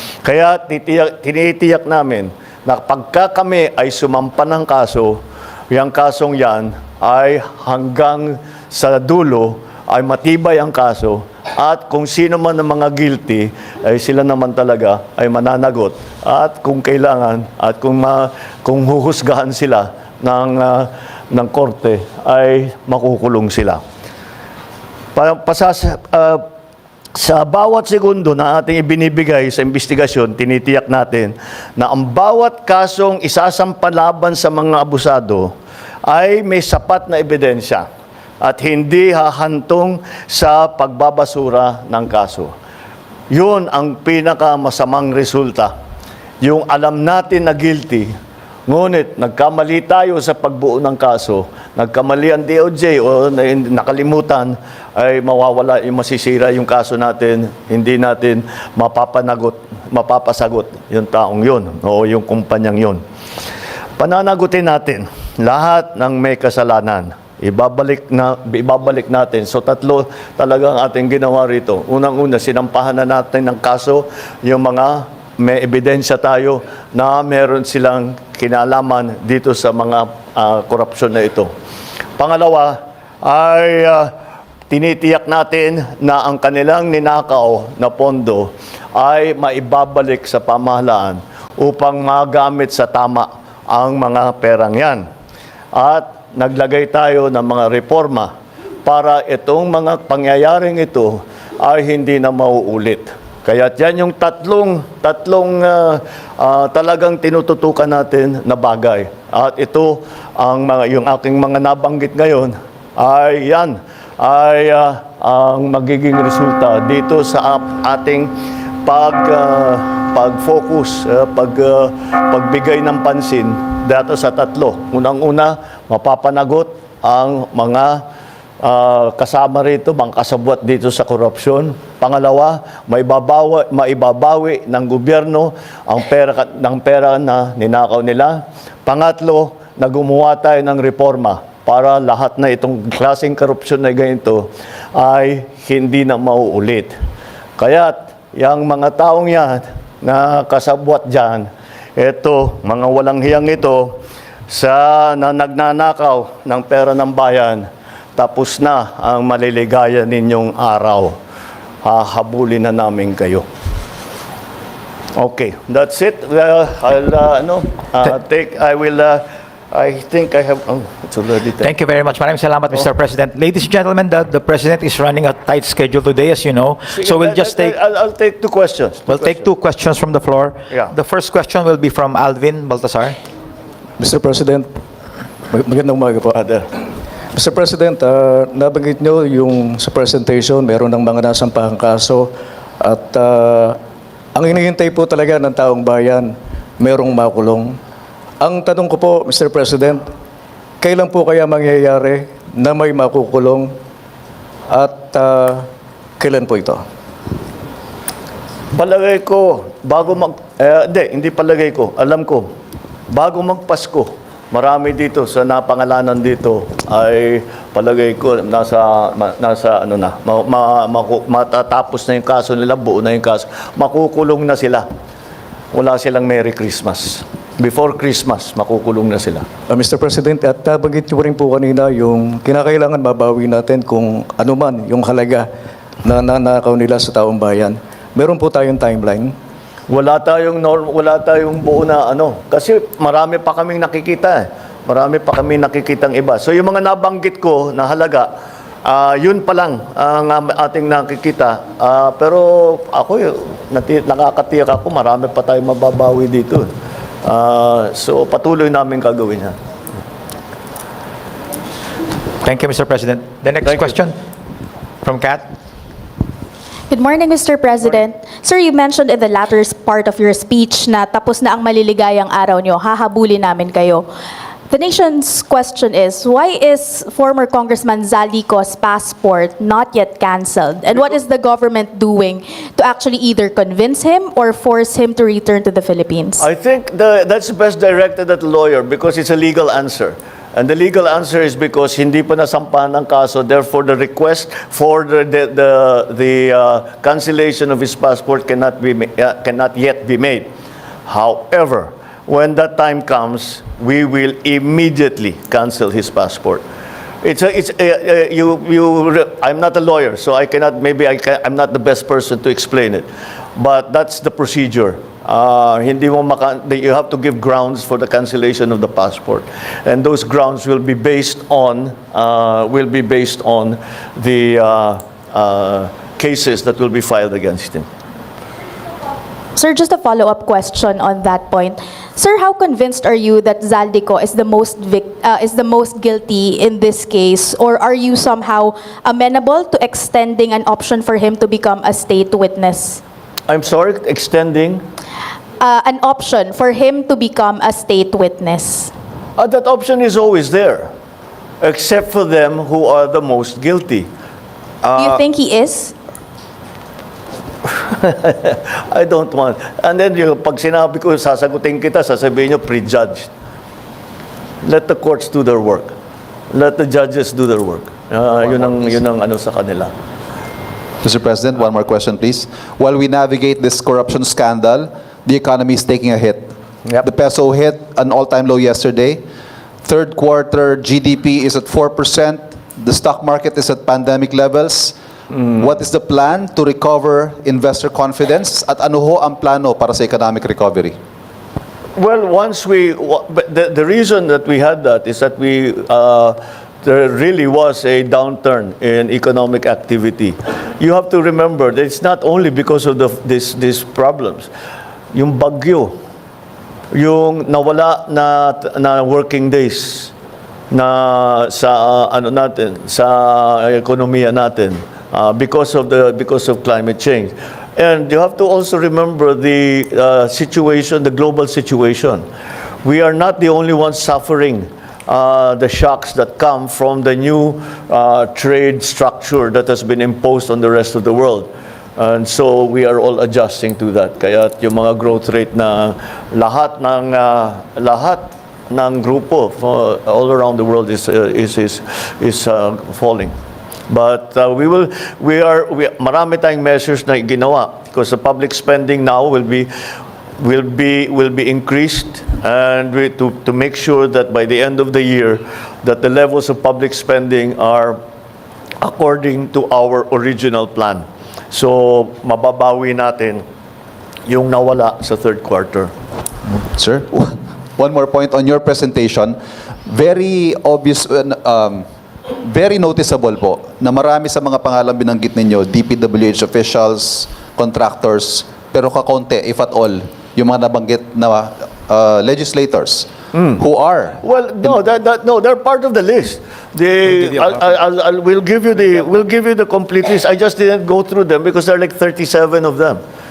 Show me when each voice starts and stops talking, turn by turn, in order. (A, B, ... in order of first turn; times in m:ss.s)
0:00.2-0:05.2 A
0:05.7-0:23.8 A
0:25.2-0:26.4 A
0:27.2-0:35.5 A
0:36.1-0:37.9 A
0:38.4-0:42.5 A
0:43.3-0:45.7 A
0:46.4-0:48.1 A
0:48.7-1:03.0 A
1:04.0-1:21.5 A
1:22.2-1:24.1 A
1:24.7-1:35.0 A
1:35.7-1:38.3 A
1:38.8-1:58.3 A
1:58.8-2:08.0 A
2:08.6-2:26.9 A
2:27.6-2:34.0 A
2:34.5-2:41.2 A
2:41.8-2:43.5 A
2:45.2-2:51.7 A
2:51.6-2:57.8 B
2:56.9-2:59.5 A
2:59.1-3:03.2 B
3:04.0-3:04.7 C
3:05.5-3:06.4 C
3:06.3-3:06.7 A
3:07.3-3:13.8 C
3:14.4-3:17.8 C
3:18.4-3:20.1 C
3:20.8-3:23.7 C
3:24.7-3:25.7 C
3:26.2-3:26.8 C
3:28.7-3:32.5 A
3:33.1-3:44.9 A
3:45.7-3:49.5 A
3:49.7-3:55.5 C
3:56.0-3:59.3 C
3:59.9-4:08.3 A
4:08.9-4:16.7 A
4:17.2-4:19.6 A
4:22.4-4:24.2 B
4:25.0-4:25.5 B
4:26.9-4:34.1 D
4:34.7-4:46.4 D
4:46.4-5:00.5 A
5:01.1-5:06.6 A
5:07.2-5:27.9 A
5:29.6-5:43.0 D
5:43.5-5:44.8 A
5:45.6-5:48.9 D
5:49.4-5:50.9 A
5:51.6-5:54.1 A
5:54.8-5:55.2 A
5:55.0-5:55.9 D
5:57.7-6:03.3 A
6:04.6-6:06.0 A
6:06.5-6:09.9 A
6:11.0-6:19.2 E
6:19.8-6:31.0 E
6:32.0-6:44.5 A
6:45.1-6:46.0 A
6:46.9-6:50.1 A
6:50.7-7:02.2 A
7:02.8-7:23.4 A
7:23.9-7:29.7 A
7:30.4-7:38.0 A
7:38.8-7:43.4 A
7:44.3-7:45.9 A
7:46.7-7:51.9 E
7:52.4-8:04.2 E
8:03.3-8:03.6 A
8:04.2-8:13.0 A